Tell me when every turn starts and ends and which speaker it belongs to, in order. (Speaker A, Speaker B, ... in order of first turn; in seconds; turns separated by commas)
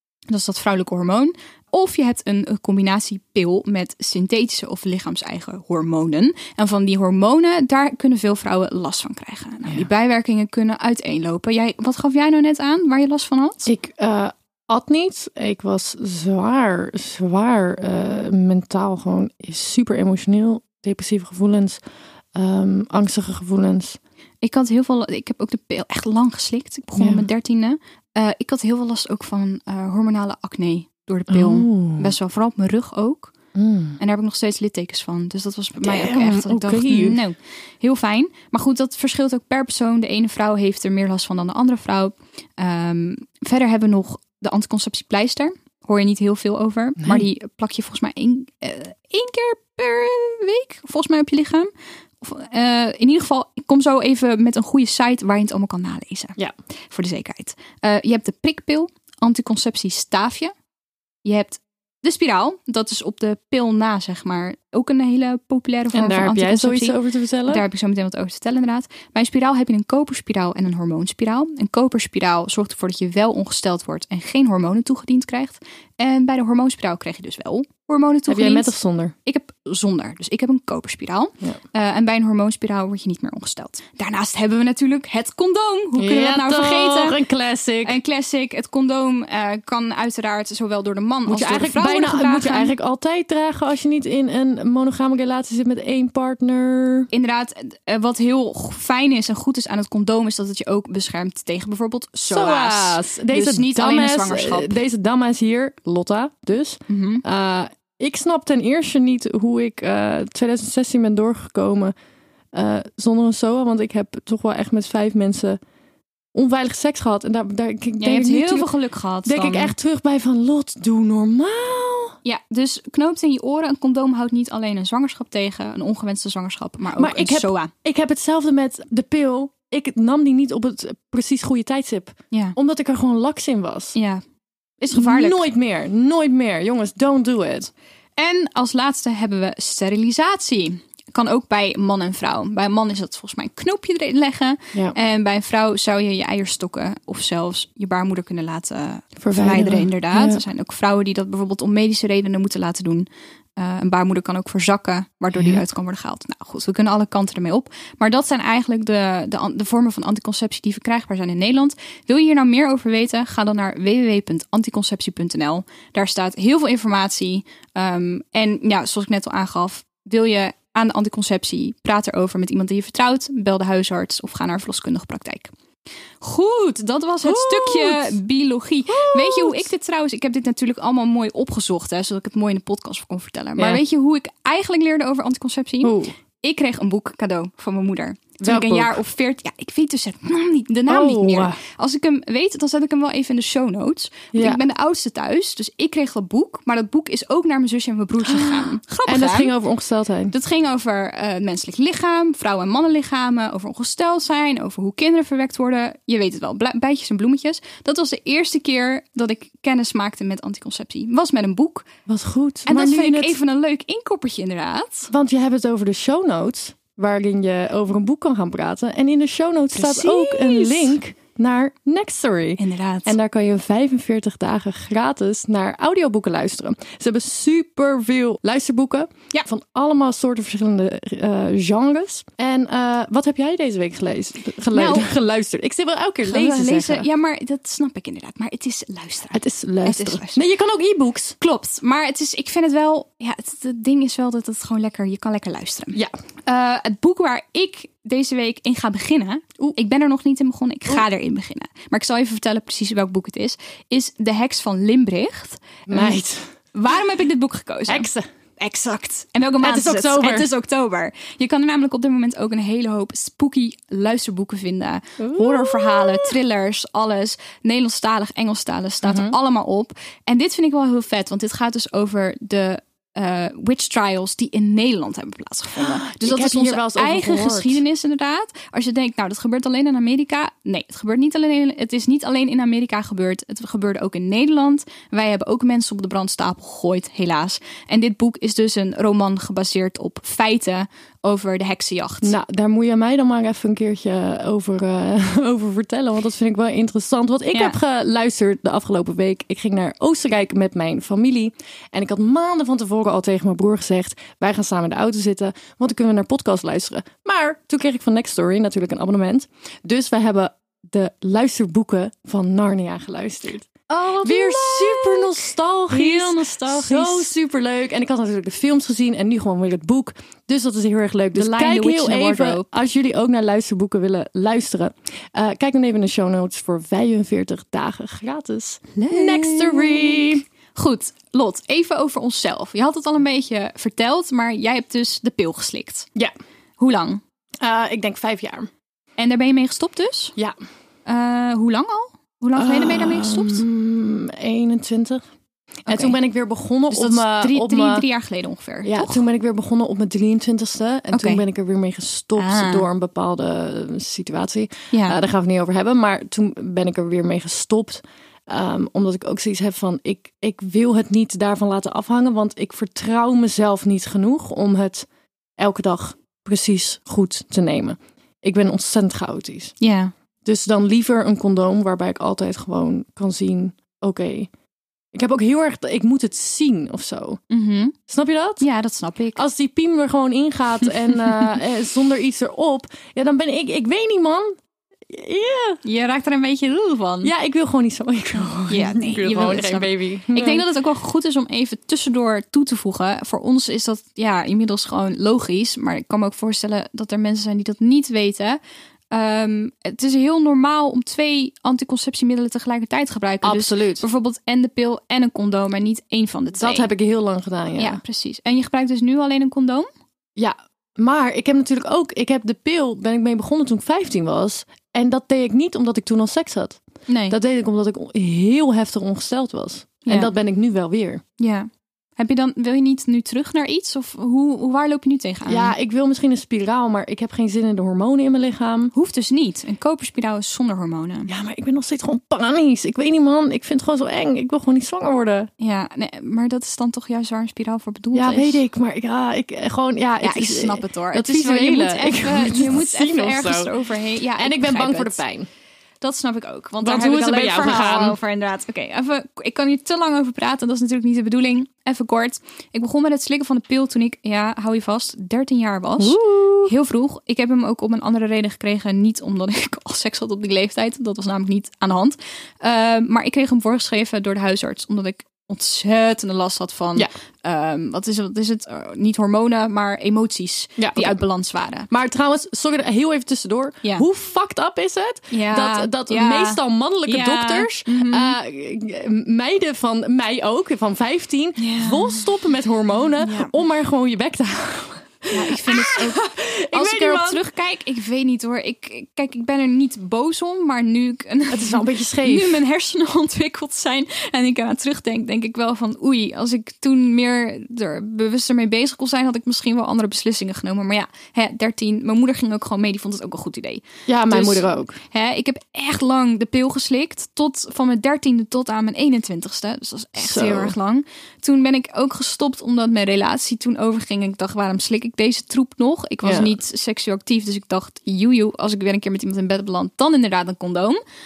Speaker A: 0.3-13.7, Speaker B: 13.7-21.8, Speaker B: 22.4-24.0, Speaker A: 24.4-33.3, Speaker B: 27.0-27.3, Speaker B: 31.3-32.1, Speaker B: 33.5-34.0, Speaker A: 34.0-51.7, Speaker B: 35.8-37.2, Speaker B: 47.0-47.3, Speaker A: 52.2-56.4, Speaker A: 56.9-60.5, Speaker A: 61.2-78.7, Speaker B: 65.9-67.6, Speaker B: 78.3-79.1, Speaker A: 79.3-87.2, Speaker B: 86.0-88.0, Speaker A: 87.8-92.8, Speaker B: 91.3-97.1, Speaker A: 97.1-104.8, Speaker B: 102.2-111.9, Speaker A: 106.9-107.2, Speaker B: 112.5-115.6, Speaker B: 116.3-118.7, Speaker A: 118.0-119.7, Speaker B: 119.2-122.2, Speaker A: 122.2-127.7, Speaker B: 127.0-134.0, Speaker A: 133.9-134.2, Speaker A: 134.8-135.4, Speaker B: 134.9-137.7, Speaker A: 138.2-175.5, Speaker B: 149.2-150.4, Speaker B: 155.3-155.6, Speaker A: 176.2-199.5, Speaker B: 177.2-178.2, Speaker B: 178.9-179.7, Speaker B: 183.6-183.8, Speaker B: 185.8-186.1, Speaker B: 188.4-189.0, Speaker B: 190.9-191.6, Speaker B: 194.3-194.6, Speaker B: 198.2-200.3, Speaker A: 200.3-211.9, Speaker B: 212.1-213.4, Speaker A: 212.7-215.1, Speaker B: 215.1-237.1, Speaker A: 219.7-220.9, Speaker A: 222.6-223.2, Speaker A: 234.7-235.1, Speaker A: 236.2-240.4, Speaker B: 239.3-241.4, Speaker A: 241.4-256.2, Speaker B: 255.9-256.5, Speaker A: 256.7-258.1, Speaker B: 257.9-258.2, Speaker A: 258.6-292.4, Speaker B: 259.6-260.5, Speaker B: 265.2-266.4, Speaker B: 269.0-269.4, Speaker B: 275.8-277.8, Speaker B: 292.2-330.4, Speaker A: 313.9-317.3, Speaker A: 321.4-322.7, Speaker A: 328.9-336.1, Speaker A: 336.8-337.2, Speaker B: 337.6-338.7, Speaker A: 339.2-340.4, Speaker A: 341.1-343.6, Speaker B: 342.6-345.2, Speaker A: 345.9-346.2, Speaker B: 345.9-348.1, Speaker A: 346.9-349.2, Speaker B: 348.8-365.1, Speaker A: 351.1-351.4, Speaker A: 352.4-352.9, Speaker A: 354.9-355.2, Speaker B: 365.6-369.8, Speaker A: 369.8-370.1, Speaker B: 370.4-374.5, Speaker B: 375.1-377.4, Speaker A: 377.5-377.9, Speaker B: 378.1-378.6, Speaker A: 378.6-379.4, Speaker B: 379.4-384.6, Speaker B: 385.1-385.8, Speaker A: 385.8-387.3, Speaker B: 387.2-390.6, Speaker A: 388.7-398.6, Speaker A: 399.1-406.9, Speaker B: 403.4-404.0, Speaker B: 406.6-408.0, Speaker A: 407.8-409.9, Speaker B: 410.4-421.2, Speaker A: 417.1-417.4, Speaker A: 420.1-420.3, Speaker A: 421.4-425.7, Speaker B: 425.5-428.9, Speaker A: 428.9-431.3, Speaker B: 431.3-435.5, Speaker A: 435.6-438.6, Speaker B: 438.1-443.7, Speaker A: 440.2-445.2, Speaker B: 444.4-445.5, Speaker A: 446.0-471.9, Speaker B: 446.8-448.2, Speaker B: 456.0-456.7, Speaker B: 470.8-471.2, Speaker B: 471.9-487.4, Speaker A: 475.3-478.4, Speaker A: 481.6-482.2, Speaker A: 483.2-483.5, Speaker A: 485.3-521.0, Speaker B: 491.5-492.6, Speaker B: 504.1-505.0, Speaker B: 510.2-510.8, Speaker B: 516.2-516.5